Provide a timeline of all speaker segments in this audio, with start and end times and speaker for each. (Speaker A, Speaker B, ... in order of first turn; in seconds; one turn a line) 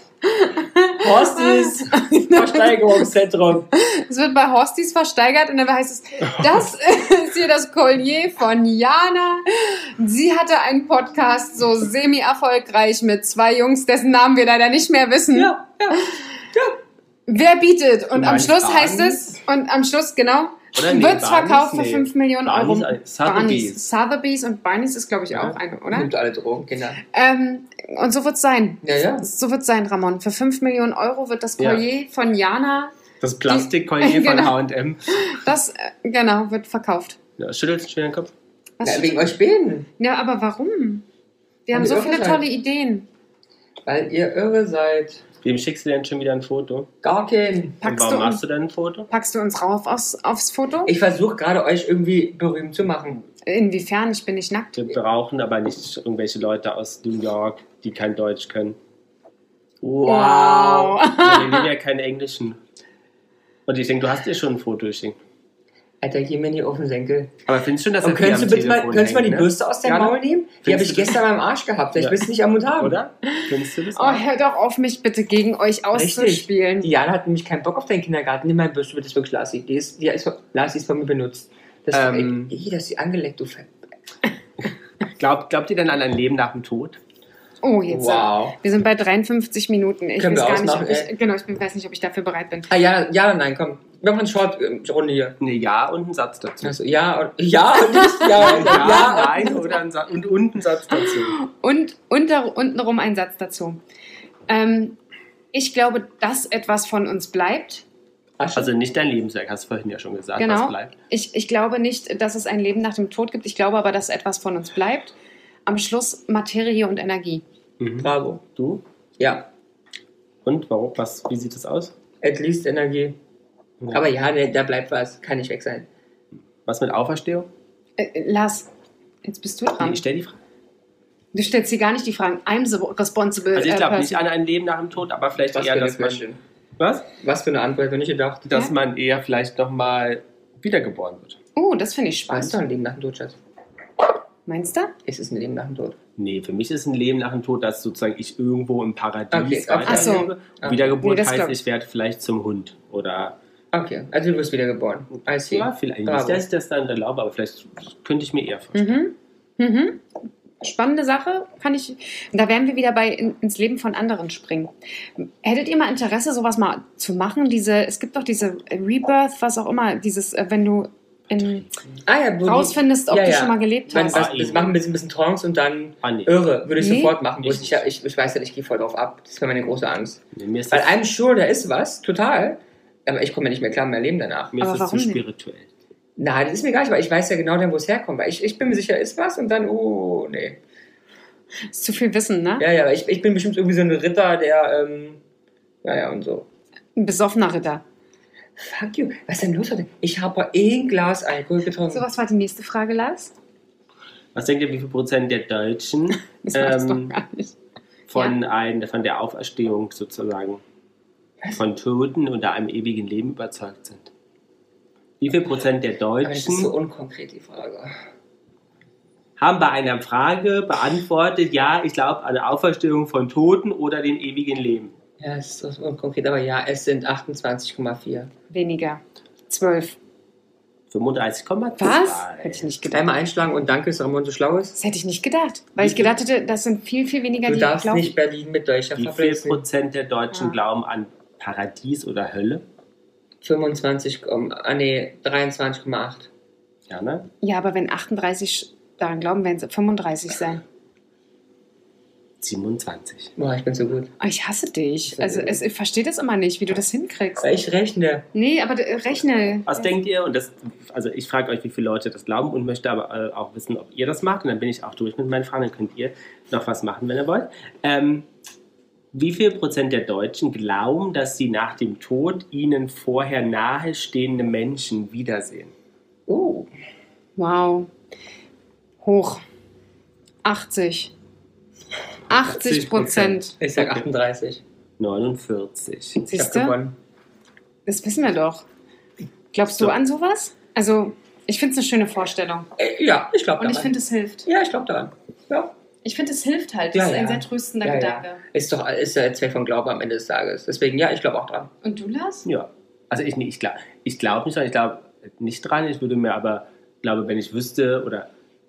Speaker A: 0.2-3.0
Speaker B: 1.0-3.7
Speaker A: 3.7-16.2
Speaker B: 15.3-16.8
Speaker A: 17.3-26.1
Speaker C: 18.1-19.3
Speaker C: 20.7-23.8
Speaker B: 25.9-27.0
Speaker A: 27.1-32.9
Speaker B: 28.8-29.3
Speaker C: 31.6-31.8
Speaker C: 33.2-35.4
Speaker A: 33.5-34.6
Speaker A: 35.1-37.2
Speaker C: 37.4-38.3
Speaker A: 38.8-39.3
Speaker B: 38.8-39.9
Speaker A: 40.0-41.0
Speaker A: 41.7-43.1
Speaker B: 41.7-42.4
Speaker B: 43.9-45.2
Speaker C: 45.4-46.9
Speaker B: 47.0-47.8
Speaker A: 47.8-48.4
Speaker C: 47.8-49.1
Speaker A: 49.1-50.9
Speaker B: 50.9-53.3
Speaker A: 53.5-54.9
Speaker C: 54.8-58.8
Speaker C: 59.8-62.6
Speaker A: 60.0-61.7
Speaker C: 63.7-65.2
Speaker B: 66.0-67.4
Speaker C: 67.5-71.2
Speaker B: 68.0-73.0
Speaker C: 72.0-72.3
Speaker C: 72.8-74.2
Speaker A: 73.3-76.9
Speaker B: 75.9-83.7
Speaker C: 81.9-82.6
Speaker C: 85.0-87.0
Speaker A: 87.6-92.7
Speaker B: 87.9-88.6
Speaker B: 90.2-91.1
Speaker B: 92.7-95.4
Speaker C: 95.4-96.7
Speaker B: 96.6-99.6
Speaker A: 97.8-99.6
Speaker C: 98.4-101.4
Speaker A: 100.9-103.8
Speaker A: 104.5-105.0
Speaker A: 105.5-107.8
Speaker B: 108.4-108.7
Speaker C: 108.5-110.9
Speaker A: 110.4-115.1
Speaker A: 115.7-117.4
Speaker C: 117.8-118.8
Speaker B: 118.0-118.4
Speaker B: 119.2-119.5
Speaker C: 120.4-121.9
Speaker B: 122.2-123.2
Speaker B: 123.9-125.9
Speaker C: 126.7-127.5
Speaker A: 128.0-128.7
Speaker A: 129.2-130.0
Speaker C: 129.8-130.4
Speaker A: 131.3-134.2
Speaker C: 133.5-136.2
Speaker B: 135.5-136.4
Speaker C: 136.8-137.1
Speaker B: 137.1-138.5
Speaker C: 138.5-141.4
Speaker A: 141.6-142.6
Speaker B: 142.3-143.4
Speaker A: 144.5-144.9
Speaker B: 145.1-146.0
Speaker C: 146.2-153.4
Speaker B: 149.3-151.0
Speaker A: 149.9-150.3
Speaker A: 151.0-151.6
Speaker B: 153.7-156.4
Speaker C: 155.5-159.0
Speaker A: 158.7-160.1
Speaker A: 160.6-171.7
Speaker C: 171.3-171.7
Speaker B: 172.1-184.6
Speaker A: 172.4-174.2
Speaker C: 174.1-174.8
Speaker C: 176.0-176.5
Speaker A: 176.8-177.2
Speaker C: 177.4-177.9
Speaker C: 180.3-180.9
Speaker C: 184.5-185.7
Speaker A: 184.6-185.2
Speaker B: 186.2-190.6
Speaker A: 191.7-192.6
Speaker B: 192.6-195.2
Speaker B: 195.8-196.5
Speaker A: 197.0-197.8
Speaker B: 198.6-202.1
Speaker A: 201.9-203.4
Speaker C: 204.3-207.2
Speaker A: 206.4-207.6
Speaker C: 208.1-210.6
Speaker C: 211.5-214.1
Speaker C: 215.2-216.7
Speaker B: 216.2-218.0
Speaker C: 219.4-224.9
Speaker B: 225.2-228.3
Speaker A: 228.5-230.0
Speaker C: 230.9-232.7
Speaker A: 231.8-233.2
Speaker B: 232.9-234.8
Speaker A: 234.8-238.1
Speaker C: 235.8-236.1
Speaker B: 237.5-239.6
Speaker C: 239.0-242.7
Speaker A: 240.3-240.6
Speaker B: 243.4-246.3
Speaker C: 246.9-247.3
Speaker A: 247.4-250.6
Speaker C: 252.4-253.3
Speaker B: 253.4-254.1
Speaker A: 254.2-257.6
Speaker B: 255.1-255.6
Speaker B: 257.4-258.2
Speaker A: 258.3-259.9
Speaker C: 259.7-268.3
Speaker C: 269.1-275.7
Speaker B: 276.3-276.7
Speaker A: 277.4-277.9
Speaker A: 279.0-279.4
Speaker A: 280.4-281.1
Speaker A: 282.3-283.6
Speaker C: 282.3-284.1
Speaker B: 283.6-284.6
Speaker C: 285.0-286.3
Speaker A: 286.3-286.8
Speaker B: 286.3-286.9
Speaker A: 287.9-288.7
Speaker A: 289.5-292.7
Speaker C: 289.7-289.9
Speaker B: 292.8-293.9
Speaker A: 293.6-294.5
Speaker B: 294.5-295.7
Speaker A: 296.0-298.4
Speaker B: 296.9-301.7
Speaker A: 301.8-302.4
Speaker C: 302.4-308.3